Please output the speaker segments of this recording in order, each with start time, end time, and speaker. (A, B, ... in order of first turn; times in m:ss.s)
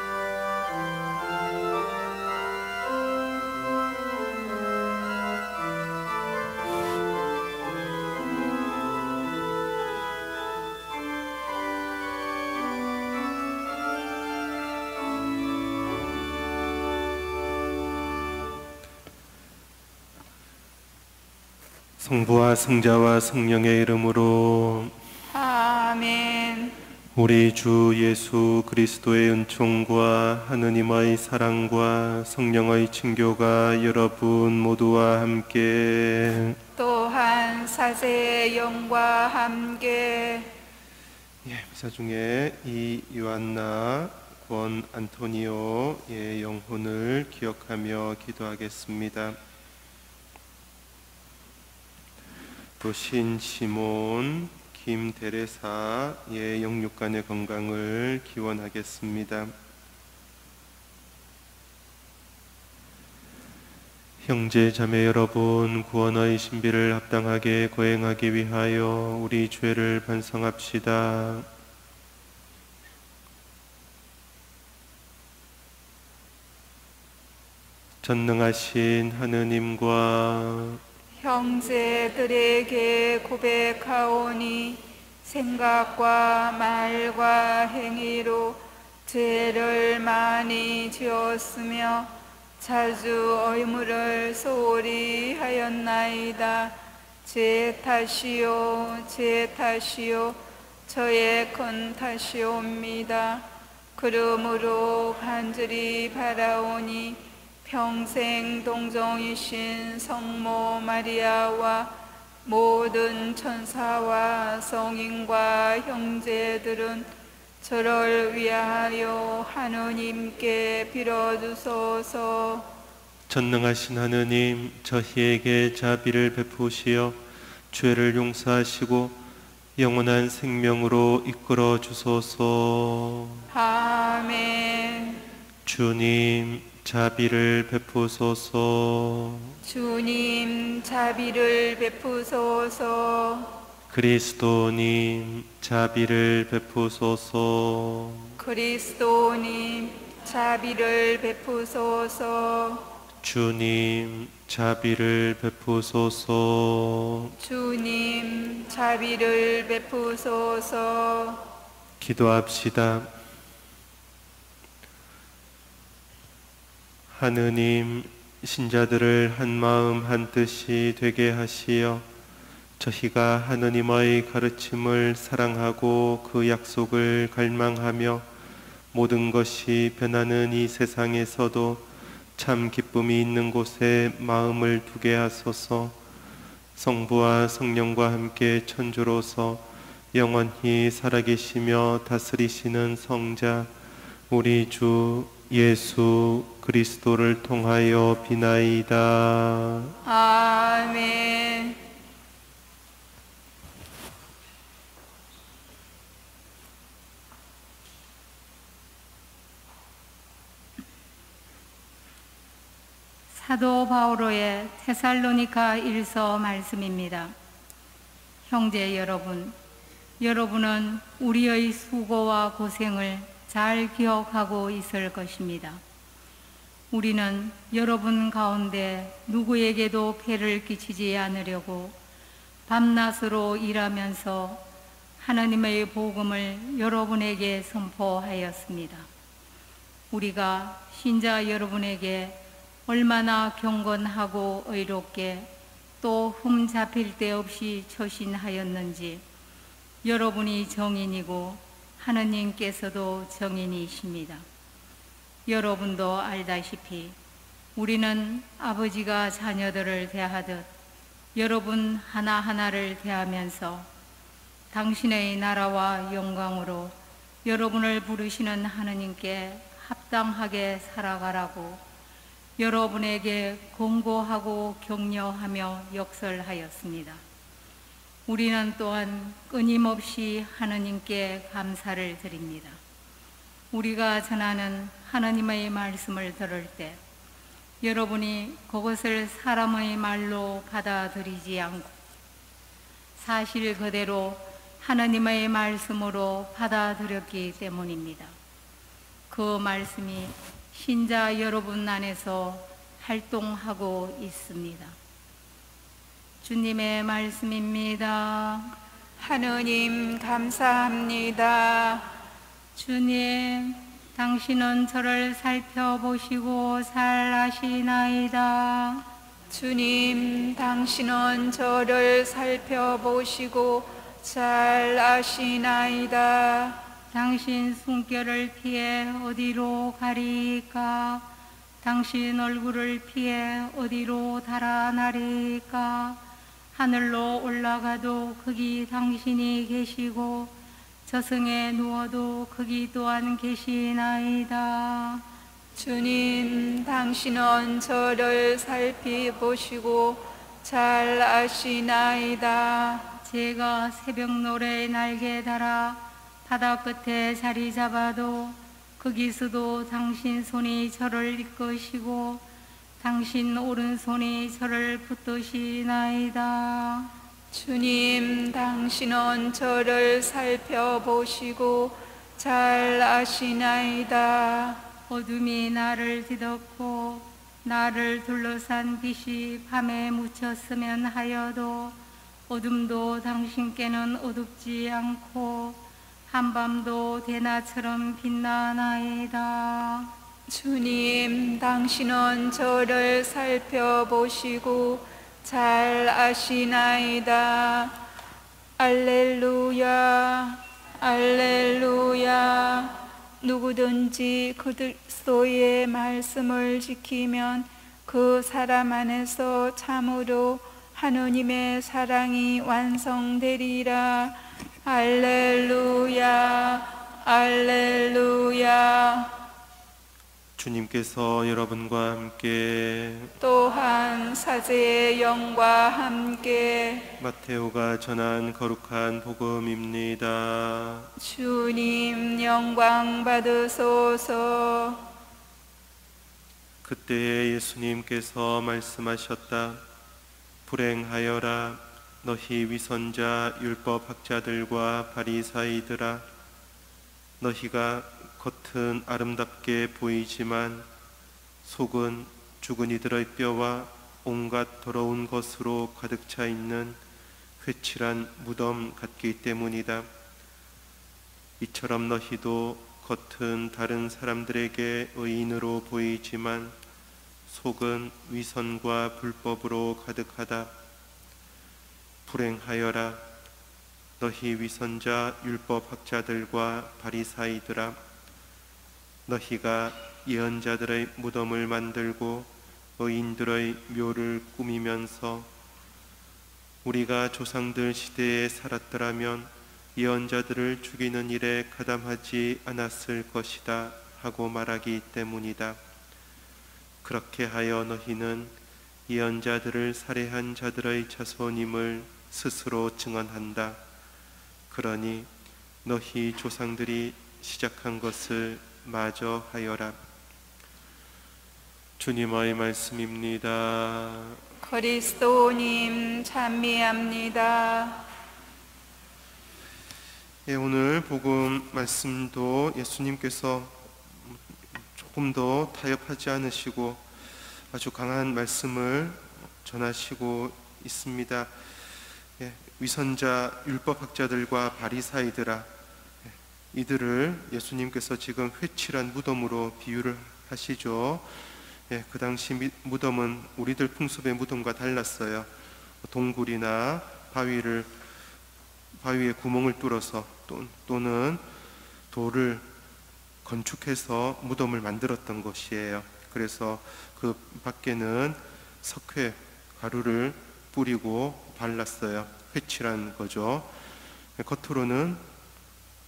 0:22.0-0:24.9 A
0:25.3-0:26.8 B
0:27.1-0:36.6 A
0:36.8-0:40.5 B
0:41.4-0:49.4 A
0:52.8-0:59.5 A
1:04.2-1:11.4 A
1:18.0-1:20.8 A
1:21.2-1:57.1 B
1:57.6-2:02.8 B
2:03.3-2:07.2 A
2:07.7-2:09.2 A
2:09.8-2:13.4 A
2:13.5-2:15.3 B
2:15.6-2:19.5 A
2:19.6-2:23.6 B
2:23.9-2:28.4 A
2:28.4-2:32.9 B
2:33.2-2:37.3 A
2:37.4-2:41.5 B
2:42.0-2:43.1 A
2:47.1-2:52.0 A
2:52.8-2:58.2 A
2:58.9-3:01.8 A
3:02.4-3:06.0 A
3:06.8-3:13.7 A
3:14.3-3:20.0 A
3:20.0-3:21.8 B
3:33.3-3:37.3 C
3:38.5-3:39.6 C
3:40.2-3:45.8 C
3:46.9-3:52.0 C
3:52.7-3:54.6 C
3:55.2-3:59.1 C
4:00.1-4:05.5 C
4:06.0-4:09.2 C
4:10.0-4:14.4 C
4:15.4-4:17.2 C
4:17.8-4:20.7 C
4:21.3-4:23.9 C
4:24.7-4:31.8 C
4:32.6-4:37.2 C
4:38.3-4:42.8 C
4:43.7-4:47.0 C
4:47.8-4:51.9 C
4:53.2-4:58.3 C
4:59.3-5:04.9 C
5:06.4-5:08.7 C
5:09.2-5:12.1 B
5:12.7-5:19.0 C
5:19.5-5:26.8 B
5:27.1-5:31.3 C
5:31.8-5:36.2 C
5:36.7-5:40.5 C
5:41.0-5:45.2 C
5:45.7-5:53.2 B
5:53.2-6:02.4 C
6:03.0-6:07.1 C
6:07.5-6:14.8 B
6:15.1-6:22.0 C
6:22.5-6:30.1 C
6:30.5-6:38.0 B
6:38.8-6:59.4 B
7:00.6-7:03.3 A
7:03.4-7:07.1 B
7:07.2-7:11.1 A
7:11.2-7:15.1 B
7:16.8-7:19.8 A
7:20.6-7:26.2 A
7:27.4-7:30.8 A
7:31.6-7:37.0 A
7:37.6-7:40.1 A
7:41.6-7:46.7 A
7:47.5-7:50.7 A
7:52.2-7:53.2 A
7:54.2-7:58.0 A
7:59.2-8:05.5 A
8:06.8-8:15.8 A
8:17.0-8:18.5 A
8:19.1-8:23.8 A
8:24.7-8:25.3 A
8:25.8-8:30.0 A
8:32.0-8:34.4 A
8:34.6-8:38.1 B
8:40.4-8:44.4 A
8:44.9-8:47.0 A
8:47.7-8:51.5 A
8:52.4-8:55.7 A
8:56.3-9:01.2 A
9:01.9-9:05.5 A
9:06.0-9:07.9 A
9:09.0-9:11.4 A
9:12.1-9:12.6 A
9:13.4-9:23.7 A
9:24.4-9:25.2 A